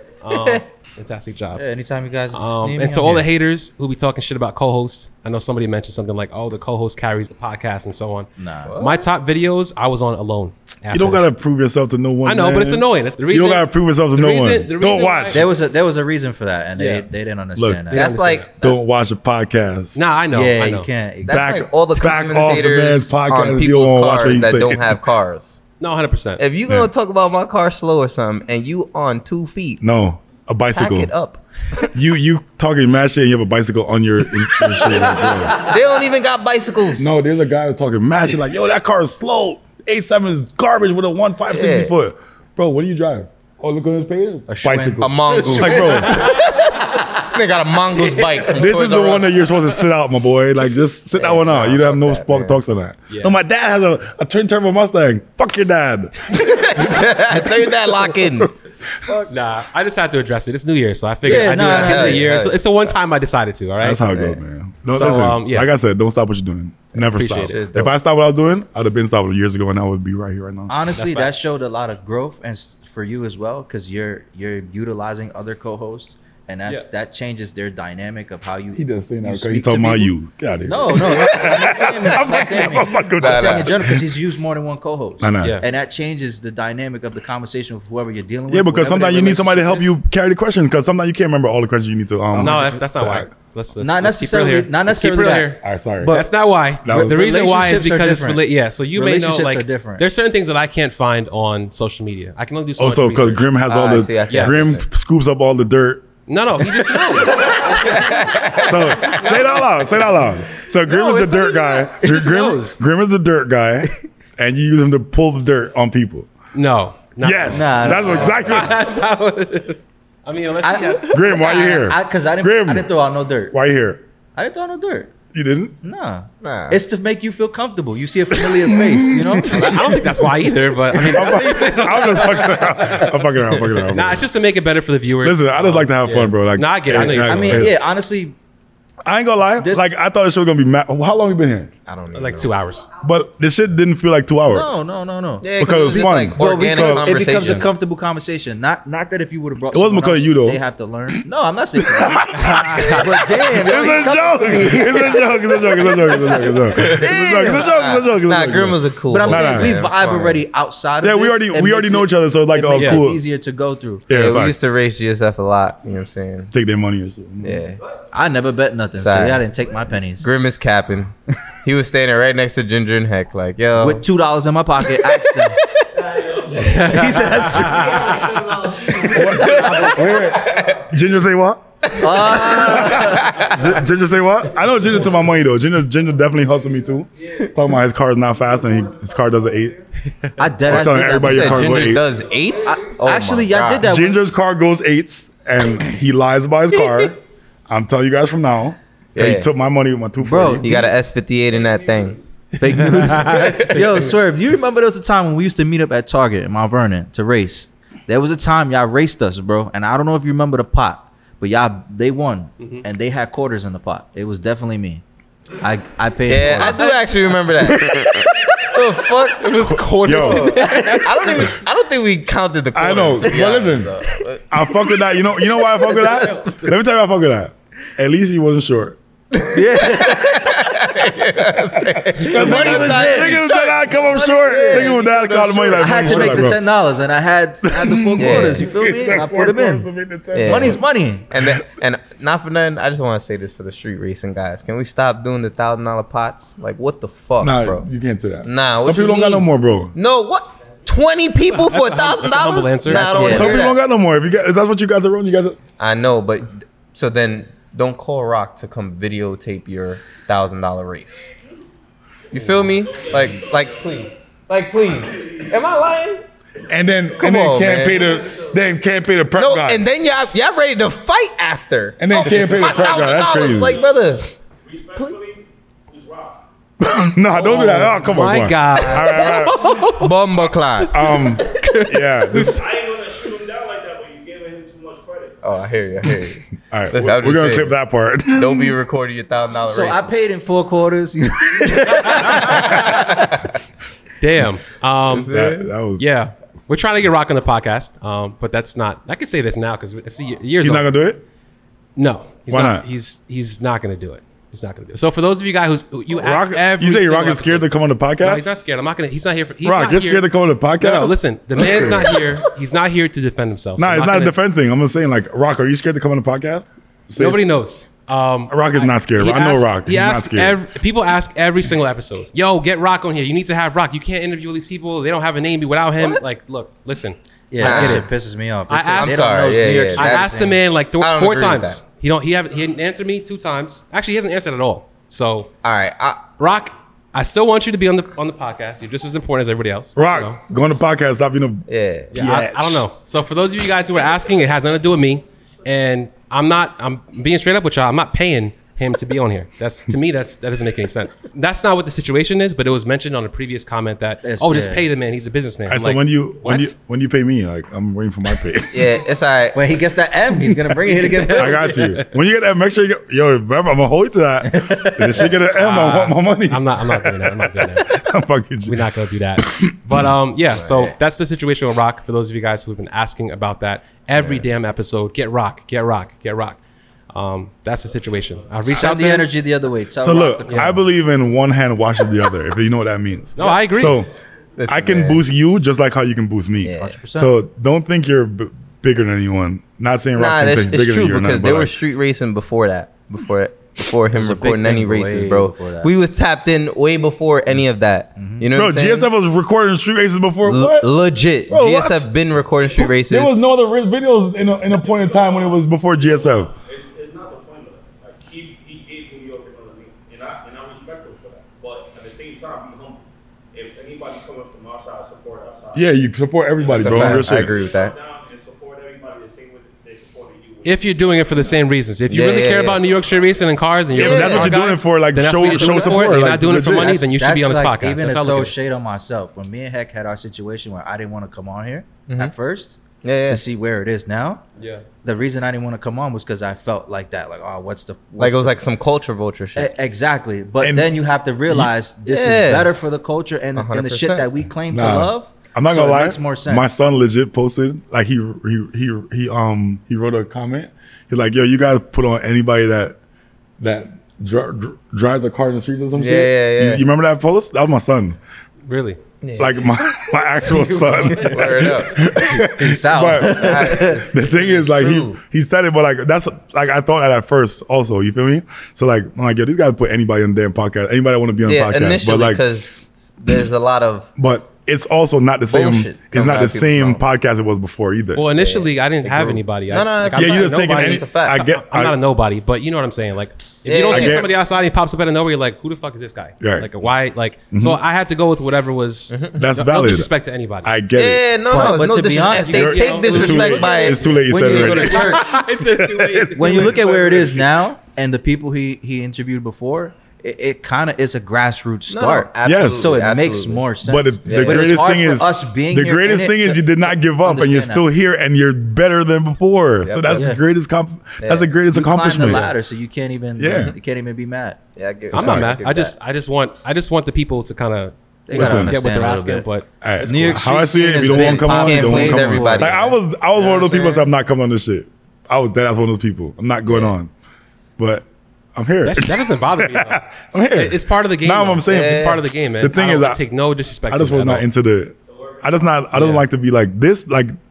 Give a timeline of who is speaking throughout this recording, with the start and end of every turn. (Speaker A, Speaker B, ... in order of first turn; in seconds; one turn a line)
Speaker A: 0.2-1.6
Speaker B: 0.3-0.6
Speaker C: 1.6-3.3
Speaker A: 2.3-8.3
Speaker C: 8.4-8.8
Speaker B: 8.6-9.0
Speaker A: 8.8-11.3
Speaker D: 10.9-15.4
Speaker A: 12.2-15.4
Speaker C: 15.3-18.1
Speaker A: 16.8-17.1
Speaker D: 17.6-17.8
Speaker A: 17.9-18.5
Speaker B: 17.9-18.6
Speaker D: 18.6-20.0
Speaker A: 19.9-20.9
Speaker C: 20.3-21.5
Speaker B: 21.2-25.6
Speaker D: 21.3-25.0
Speaker A: 25.8-26.4
Speaker B: 26.4-29.8
Speaker D: 29.8-31.1
Speaker B: 30.7-31.9
Speaker D: 31.9-35.7
Speaker B: 34.7-37.1
Speaker D: 37.0-46.4
Speaker B: 41.5-41.9
Speaker C: 44.5-46.4
Speaker B: 45.0-49.5
Speaker D: 48.5-58.4
Speaker B: 51.1-52.6
Speaker A: 53.1-53.4
Speaker B: 56.4-58.5
Speaker A: 59.3-64.0
Speaker C: 61.2-62.3
Speaker B: 61.2-62.6
Speaker D: 63.8-70.8
Speaker B: 64.1-64.4
Speaker A: 64.9-65.7
Speaker B: 67.0-67.9
Speaker A: 67.1-67.6
Speaker C: 70.7-80.1
Speaker A: 70.9-71.3
Speaker D: 78.7-84.1
Speaker C: 80.7-89.9
Speaker B: 81.1-82.7
Speaker B: 83.2-83.7
Speaker D: 85.2-85.6
Speaker D: 88.5-93.3
Speaker A: 92.3-103.5
Speaker C: 92.4-92.7
Speaker C: 93.8-96.3
Speaker D: 95.6-96.2
Speaker D: 96.8-97.3
Speaker C: 97.0-98.4
Speaker C: 98.9-100.0
Speaker D: 102.8-106.1
Speaker B: 103.7-104.8
Speaker A: 104.3-104.7
Speaker A: 106.3-110.0
Speaker B: 107.3-109.2
Speaker D: 108.5-116.3
Speaker A: 110.6-112.8
Speaker A: 116.5-121.1
Speaker D: 117.2-118.8
Speaker C: 117.5-118.7
Speaker C: 120.6-123.5
Speaker D: 121.1-122.9
Speaker D: 123.5-124.0
Speaker C: 124.3-125.1
Speaker D: 125.3-125.8
Speaker C: 125.8-130.1
Speaker B: 126.4-126.8
Speaker D: 128.3-130.3
Speaker A: 129.5-133.2
Speaker D: 130.9-134.3
Speaker C: 131.0-131.6
Speaker A: 133.9-137.7
Speaker D: 135.1-137.8
Speaker C: 136.9-138.3
Speaker D: 139.0-141.7
Speaker C: 139.6-139.9
Speaker B: 141.9-142.5
Speaker A: 142.1-142.9
Speaker D: 143.0-144.8
Speaker C: 144.5-155.2
Speaker B: 145.4-147.7
Speaker D: 145.6-147.2
Speaker D: 149.7-150.6
Speaker D: 151.8-159.8
Speaker A: 152.5-153.1
Speaker B: 154.4-160.4
Speaker C: 155.9-156.4
Speaker C: 157.0-157.7
Speaker C: 159.1-164.1
Speaker D: 161.0-163.2
Speaker A: 162.7-163.1
Speaker D: 164.1-164.6
Speaker B: 164.1-166.5
Speaker D: 166.5-167.7
Speaker B: 167.4-167.8
Speaker C: 168.1-170.3
Speaker B: 168.9-169.4
Speaker B: 170.2-174.0
Speaker C: 173.8-175.6
Speaker B: 174.9-176.2
Speaker E: 176.1-176.7
Speaker A: 176.5-180.2
Speaker C: 176.7-180.0
Speaker E: 177.9-178.7
Speaker B: 178.6-180.8
Speaker D: 179.0-181.6
Speaker B: 181.8-183.8
Speaker C: 181.9-183.7
Speaker D: 182.9-189.8
Speaker C: 190.4-192.0
Speaker D: 190.6-192.1
Speaker B: 191.2-193.9
Speaker C: 192.6-194.2
Speaker D: 193.8-200.8
Speaker B: 199.1-199.5
Speaker C: 200.2-200.9
Speaker B: 200.6-202.2
Speaker E: 201.5-202.2
Speaker C: 202.6-215.0
Speaker A: 202.6-204.1
Speaker B: 203.3-203.7
Speaker A: 212.6-212.8
Speaker C: 215.6-216.9
Speaker B: 216.2-224.7
Speaker A: 216.6-217.4
Speaker A: 219.4-221.5
Speaker D: 219.6-220.6
Speaker D: 222.7-229.0
Speaker A: 225.9-226.7
Speaker B: 229.3-236.5
Speaker C: 229.5-230.9
Speaker C: 232.2-233.4
Speaker D: 232.2-236.6
Speaker C: 234.5-235.0
Speaker C: 235.8-239.9
Speaker D: 237.7-240.8
Speaker B: 238.2-238.7
Speaker B: 240.3-247.9
Speaker C: 240.4-241.3
Speaker D: 247.4-249.9
Speaker B: 248.4-253.8
Speaker A: 251.5-253.5
Speaker C: 252.9-253.6
Speaker D: 252.9-255.6
Speaker B: 255.8-261.3
Speaker B: 262.3-266.2
Speaker E: 262.4-264.1
Speaker E: 264.9-265.9
Speaker D: 266.7-269.8
Speaker E: 266.9-268.6
Speaker B: 267.2-268.1
Speaker B: 269.3-274.3
Speaker D: 272.0-273.8
Speaker E: 272.2-276.4
Speaker D: 276.8-279.8
Speaker A: 277.4-280.2
Speaker B: 279.9-280.9
Speaker D: 280.8-282.6
Speaker A: 280.8-282.7
Speaker E: 282.5-285.4
Speaker B: 285.4-287.8
Speaker D: 286.7-288.7
Speaker B: 288.3-290.1
Speaker C: 289.7-293.4
Speaker A: 292.1-292.7
Speaker B: 292.3-293.4
Speaker A: 294.2-295.4
Speaker B: 295.1-295.7
Speaker D: 295.3-296.1
Speaker A: 296.0-300.9
Speaker D: 300.6-301.2
Speaker A: 301.9-314.3
Speaker D: 302.5-302.9
Speaker D: 306.1-308.5
Speaker D: 309.6-312.4
Speaker D: 313.8-317.4
Speaker A: 317.1-328.1
Speaker D: 318.5-320.6
Speaker C: 327.5-330.5
Speaker B: 327.6-328.0
Speaker A: 328.7-335.5
Speaker B: 329.0-331.8
Speaker B: 335.6-336.2
Speaker A: 336.4-340.4
Speaker D: 339.9-342.9
Speaker B: 341.7-342.1
Speaker A: 342.1-356.7
Speaker C: 354.2-354.8
Speaker D: 355.7-358.9
Speaker B: 358.7-359.6
Speaker C: 359.5-361.8
Speaker A: 360.9-362.1
Speaker D: 361.2-368.8
Speaker C: 364.4-365.3
Speaker A: 365.5-367.9
Speaker A: 368.6-376.6
Speaker D: 369.4-370.1
Speaker B: 370.5-370.9
Speaker B: 374.1-374.4
Speaker A: 377.1-379.3
Speaker C: 378.7-380.8
Speaker D: 380.0-384.1
Speaker A: 380.5-380.8
Speaker A: 383.4-384.0
Speaker B: 384.6-385.2
Speaker D: 384.7-391.8
Speaker B: 386.6-386.9
Speaker C: 386.8-387.3
Speaker B: 390.1-399.1
Speaker C: 394.1-395.9
Speaker C: 398.1-398.4
Speaker D: 398.5-400.9
Speaker B: 400.4-403.3
Speaker D: 401.5-402.1
Speaker D: 402.8-406.5
Speaker E: 404.6-415.9
Speaker D: 415.7-417.5
Speaker E: 416.6-421.6
Speaker B: 416.7-417.9
Speaker A: 420.6-428.5
Speaker B: 422.1-422.8
Speaker E: 422.7-423.5
Speaker D: 423.9-427.0
Speaker B: 423.9-424.6
Speaker B: 425.4-426.0
Speaker C: 426.9-434.4
Speaker B: 432.1-432.3
Speaker B: 433.0-433.4
Speaker A: 434.6-434.8
Speaker C: 435.0-438.6
Speaker B: 438.2-439.7
Speaker C: 439.6-446.7
Speaker D: 440.6-441.7
Speaker B: 442.1-442.7
Speaker B: 443.5-444.3
Speaker D: 444.7-453.0
Speaker D: 453.6-458.2
Speaker B: 455.9-456.8
Speaker A: 458.7-459.0
Speaker B: 459.2-459.6
Speaker D: 459.4-472.4
Speaker A: 460.4-461.8
Speaker B: 461.1-462.1
Speaker C: 462.3-464.1
Speaker B: 463.1-465.2
Speaker B: 471.4-474.1
Speaker D: 474.2-478.2
Speaker B: 475.5-477.0
Speaker A: 478.1-490.7
Speaker B: 478.3-481.4
Speaker D: 480.1-482.0
Speaker B: 483.6-484.3
Speaker D: 483.9-484.3
Speaker D: 486.4-486.7
Speaker D: 487.5-487.8
Speaker B: 489.1-489.4
Speaker D: 489.4-490.1
Speaker D: 490.6-491.3
Speaker B: 490.9-495.2
Speaker A: 491.5-497.3
Speaker C: 491.5-495.2
Speaker D: 492.6-497.5
Speaker C: 496.4-507.8
Speaker B: 501.9-503.6
Speaker D: 502.4-503.0
Speaker D: 503.8-512.5
Speaker B: 504.2-504.8
Speaker B: 509.8-510.3
Speaker C: 510.1-510.4
Speaker B: 511.2-511.5
Speaker C: 511.7-514.6
Speaker D: 513.4-513.7
Speaker B: 514.8-516.0
Speaker A: 515.1-519.7
Speaker D: 515.1-515.6
Speaker C: 518.3-519.5
Speaker D: 518.3-518.8
Speaker D: 519.8-527.1
Speaker C: 520.0-523.0
Speaker B: 521.1-522.8
Speaker B: 523.3-524.1
Speaker B: 526.7-526.9
Speaker D: 527.8-533.2
Speaker A: 528.8-534.5
Speaker B: 531.7-532.2
Speaker D: 533.9-537.3
Speaker E: 535.0-535.8
Speaker A: 535.9-536.2